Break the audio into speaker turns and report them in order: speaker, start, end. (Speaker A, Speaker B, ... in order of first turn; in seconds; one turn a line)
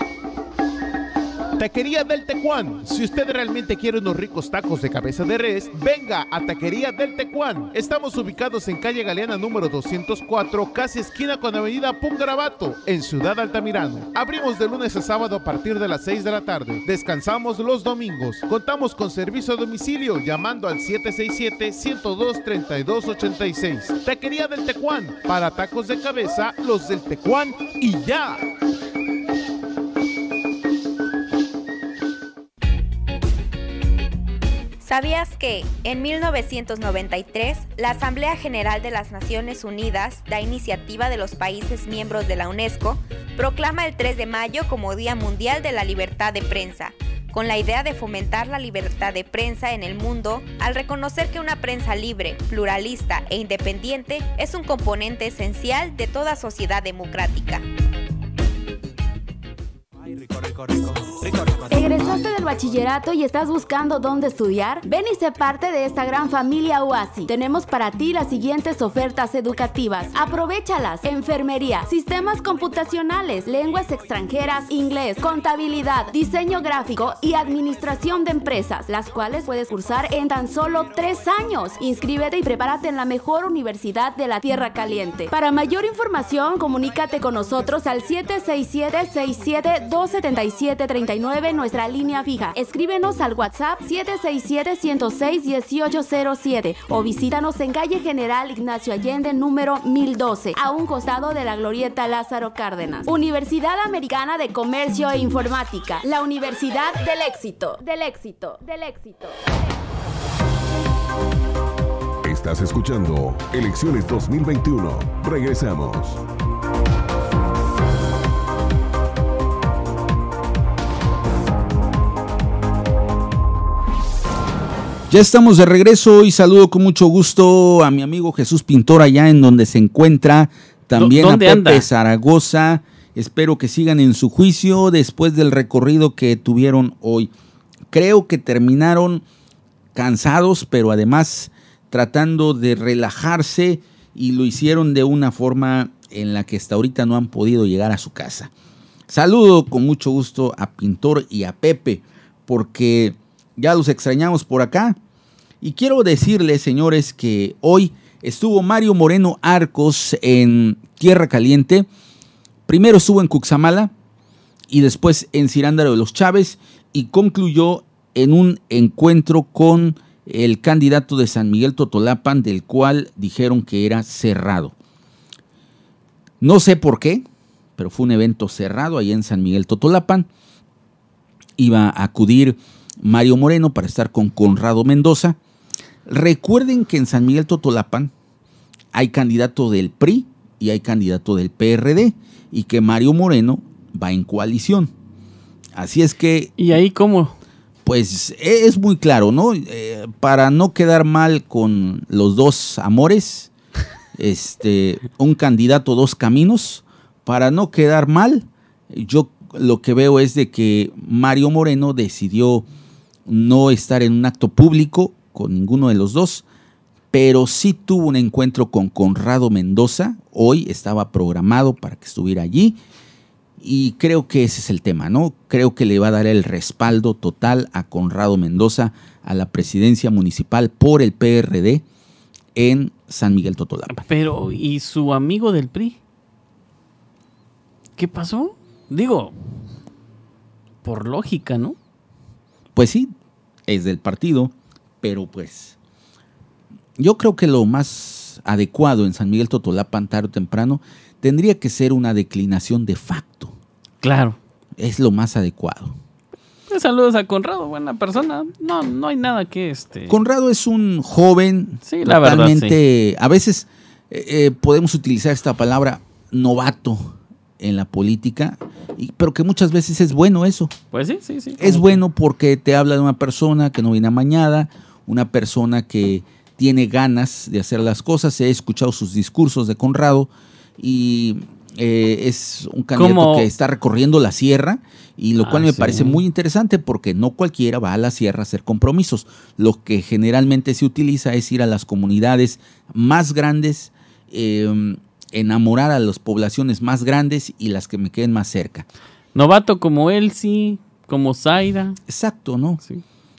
Speaker A: 1.6-28.4
Speaker B: 34.8-57.6
Speaker C: 61.4-109.4
Speaker D: 112.2-116.2
Speaker E: 125.1-137.3
Speaker F: 131.0-131.8
Speaker E: 137.9-139.2
Speaker E: 139.9-148.5
Speaker E: 149.1-155.0
Speaker E: 155.6-161.9
Speaker E: 162.7-163.9
Speaker E: 164.7-174.7
Speaker E: 176.4-177.2
Speaker E: 177.8-180.3
Speaker E: 181.6-185.4
Speaker E: 186.1-188.1
Speaker E: 188.9-194.9
Speaker E: 195.7-196.5
Speaker F: 196.6-197.3
Speaker E: 197.8-203.5
Speaker E: 204.2-212.6
Speaker E: 213.2-216.4
Speaker E: 217.1-222.8
Speaker E: 223.6-231.8
Speaker E: 232.5-234.0
Speaker F: 233.9-236.0
Speaker F: 238.0-239.3
Speaker F: 240.8-241.8
Speaker E: 242.7-243.1
Speaker E: 243.7-245.7
Speaker E: 247.0-253.6
Speaker F: 254.0-254.4
Speaker E: 254.8-256.0
Speaker F: 256.7-260.2
Speaker E: 260.1-270.7
Speaker F: 261.9-262.8
Speaker F: 270.9-272.0
Speaker E: 271.6-298.9
Speaker F: 282.9-283.5
Speaker F: 285.4-286.2
Speaker F: 299.3-302.0
Speaker E: 302.1-302.8